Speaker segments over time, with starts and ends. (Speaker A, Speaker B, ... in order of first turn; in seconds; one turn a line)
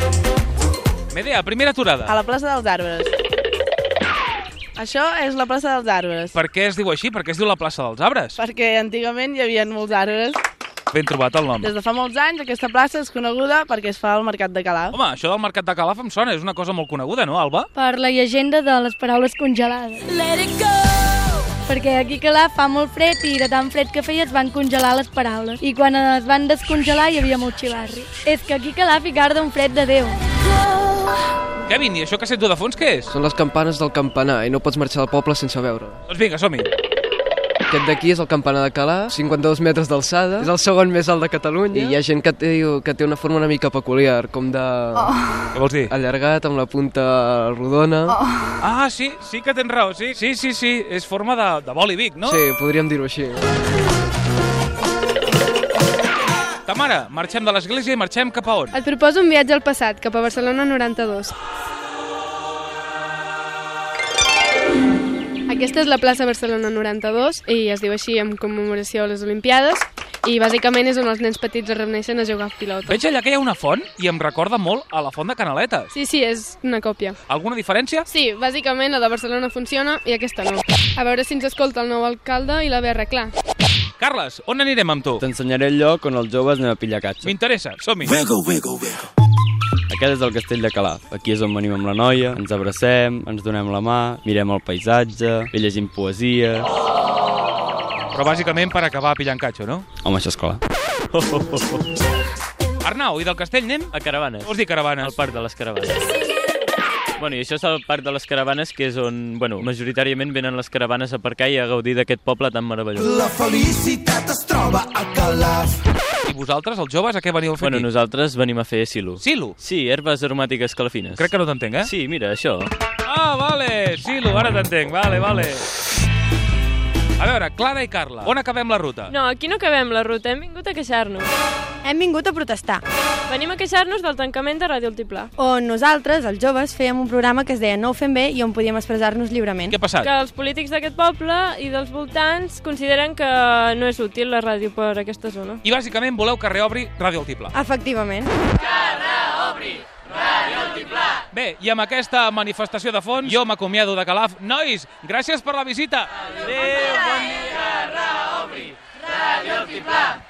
Speaker A: 1.1-2.1
Speaker B: 2.1-3.1
Speaker B: 4.8-6.3
Speaker A: 6.3-8.4
Speaker B: 8.4-10.4
Speaker A: 10.9-11.7
Speaker B: 11.6-14.9
Speaker A: 14.9-17.7
Speaker C: 17.8-20.4
Speaker C: 21.7-30.1
Speaker A: 31.7-33.1
Speaker D: 33.1-36.0
Speaker A: 36.1-36.7
Speaker D: 37.7-45.1
Speaker A: 45.5-45.9
Speaker D: 45.9-48.2
Speaker A: 48.6-52.4
Speaker D: 52.3-53.4
Speaker A: 56.7-58.7
Speaker E: 58.7-61.3
Speaker E: 65.5-73.0
Speaker A: 72.9-75.9
Speaker E: 75.9-77.2
Speaker A: 77.3-78.1
Speaker E: 78.1-83.3
Speaker A: 84.0-85.2
Speaker F: 85.2-87.3
Speaker A: 87.2-88.2
Speaker G: 88.1-89.0
Speaker F: 89.9-96.7
Speaker A: 98.1-99.9
Speaker F: 100.0-100.6
Speaker H: 101.1-101.7
Speaker A: 102.8-105.2
Speaker H: 103.9-104.5
Speaker H: 105.0-106.0
Speaker H: 107.2-113.1
Speaker G: 113.0-115.8
Speaker A: 116.3-117.9
Speaker H: 117.6-121.3
Speaker A: 119.2-119.6
Speaker A: 121.2-121.9
Speaker H: 121.8-122.7
Speaker A: 123.0-125.7
Speaker A: 127.2-129.1
Speaker I: 129.1-131.3
Speaker J: 131.8-132.8
Speaker I: 133.3-135.3
Speaker J: 135.4-139.8
Speaker A: 139.7-140.1
Speaker I: 140.0-145.6
Speaker A: 145.6-147.5
Speaker J: 147.5-148.3
Speaker A: 151.3-156.1